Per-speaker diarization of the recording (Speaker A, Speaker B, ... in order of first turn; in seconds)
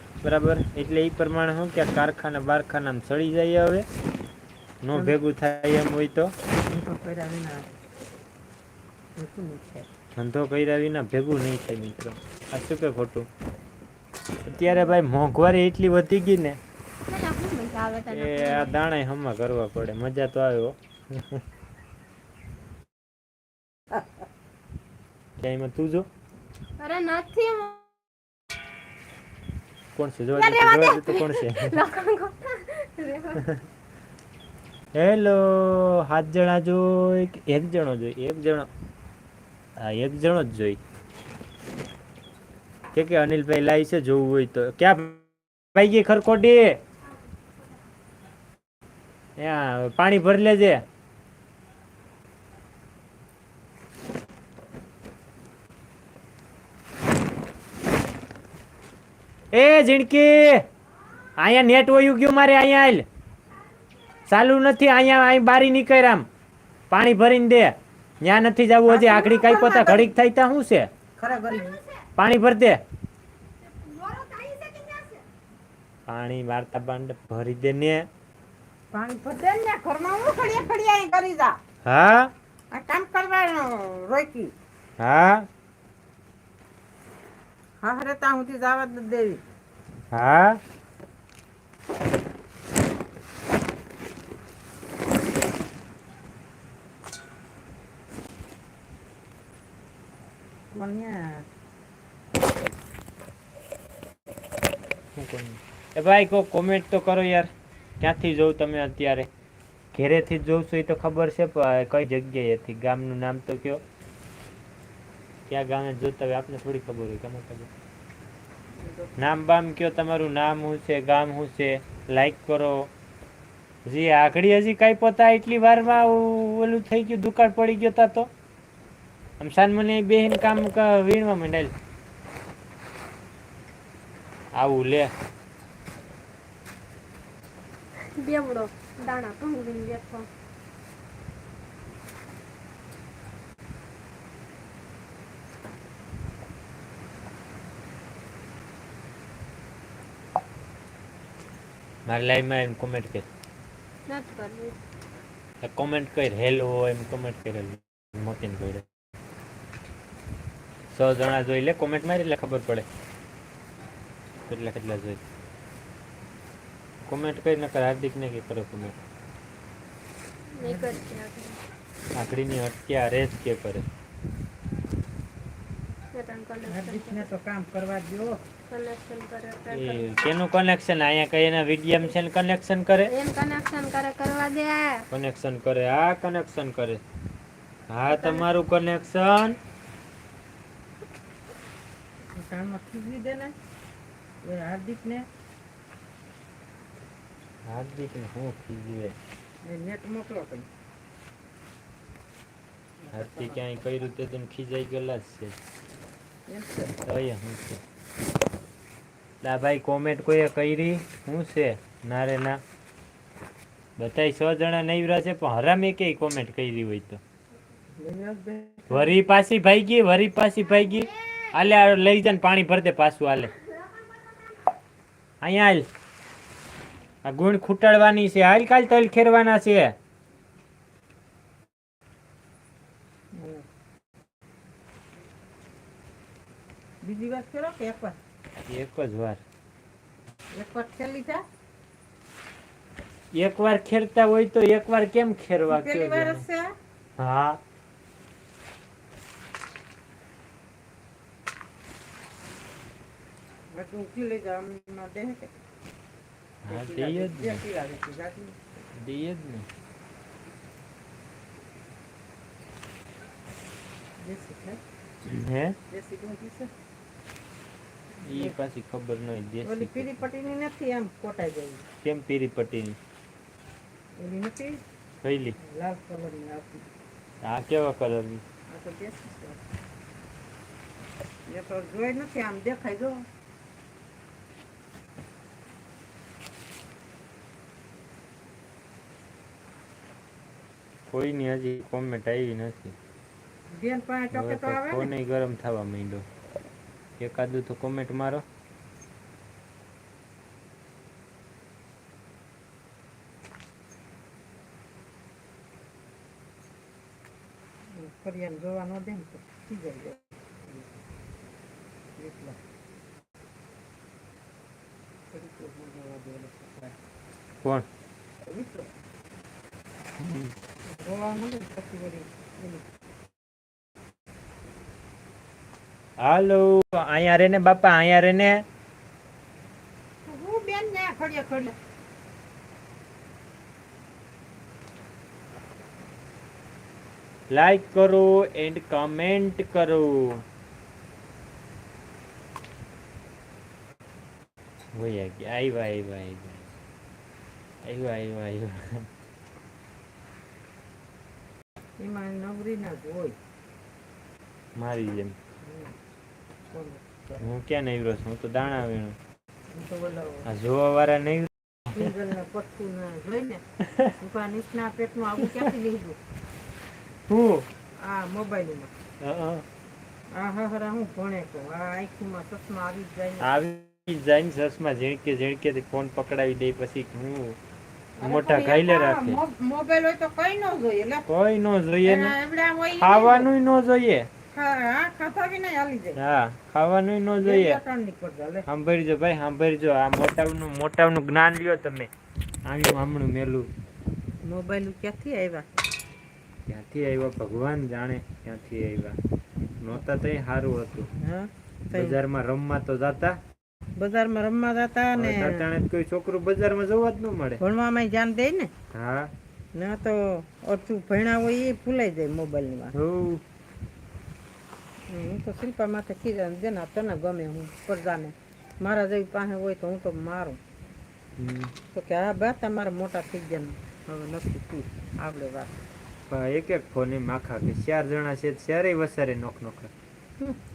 Speaker A: 0.2-3.9, 4.8-6.3, 10.2-13.3, 14.4-16.6, 18.1-21.4, 25.4-26.1, 29.9-31.8, 34.9-38.7, 39.8-40.8, 42.9-46.8, 49.4-50.8, 59.5-60.6, 61.4-63.0, 64.3-66.2, 66.9-70.9, 72.2-72.8, 76.1-78.1, 81.8-82.3, 85.0-85.5, 90.1-90.6, 105.2-107.5, 108.0-109.3, 109.9-113.8, 115.5-117.7, 119.2-122.9, 123.8-128.3, 129.4-131.7, 134.5-135.1, 152.1-153.2, 155.6-158.8, 160.9-162.9, 164.5-165.2, 167.0-168.9, 172.1-173.8, 179.7-183.1, 185.1-187.0, 187.9-189.6, 197.7-199.2, 203.1-205.6, 207.0-207.8, 209.4-212.6, 214.0-217.2, 218.9-223.5, 225.4-225.9, 227.2-229.9, 238.7-239.4, 243.3-246.4, 247.2-247.6, 256.6-257.6, 258.9-259.7, 265.2-265.8, 268.2-270.1, 272.0-273.0, 275.2-275.6, 277.4-278.4, 291.1-292.9, 294.3-296.2, 297.2-298.4, 320.2-320.5, 326.2-328.6, 337.5-340.4, 344.9-346.7, 347.8-349.1, 354.8-355.4, 357.4-359.2, 360.4-362.1, 367.3-367.7, 369.2-369.6, 373.4-377.6, 378.2-379.4, 381.3-382.4, 383.0-384.3, 386.1-387.8, 388.7-392.1, 392.6-393.7, 396.7-399.2, 399.8-401.1, 401.9-403.4, 405.1-407.6, 408.9-409.3, 412.9-413.4, 421.4-421.7, 426.3-429.9
Speaker B: 4.9-5.2, 6.7-7.7, 9.2-9.9, 68.9-70.1, 71.2-71.8, 78.9-81.6, 82.7-84.5, 87.8-89.4, 100.7-101.5, 118.8-119.2, 170.6-171.0, 176.7-178.4, 188.1-188.4, 192.3-193.5, 194.4-195.3, 199.6-200.7, 203.0-203.6, 206.5-206.9, 218.0-219.1, 233.3-233.6, 237.0-238.2, 240.5-241.4, 245.7-246.7, 253.7-255.5, 256.7-258.6, 264.2-264.8, 265.9-266.7, 268.2-268.5, 269.6-271.9, 274.2-274.8, 275.6-276.8, 278.7-279.6, 281.5-283.2, 293.7-295.1, 307.9-310.9, 312.2-312.6, 315.3-316.9, 318.4-318.9, 320.9-322.8, 330.2-331.8, 352.0-353.4, 355.6-355.9, 356.7-357.5, 359.7-360.5, 361.9-363.6, 364.2-366.2, 368.0-368.9, 370.3-373.5, 378.2-381.2, 382.0-383.5, 384.5-386.2, 387.4-388.7, 394.4-395.6, 401.2-402.2, 403.9-405.7, 407.6-408.7, 409.7-412.9, 415.1-420.6, 421.9-425.8
Speaker C: 17.1-18.7, 26.8-27.8, 30.3-33.4, 73.8-75.2, 138.2-140.3, 154.1-154.8, 170.5-171.6, 176.1-177.3, 178.7-180.2, 183.1-185.1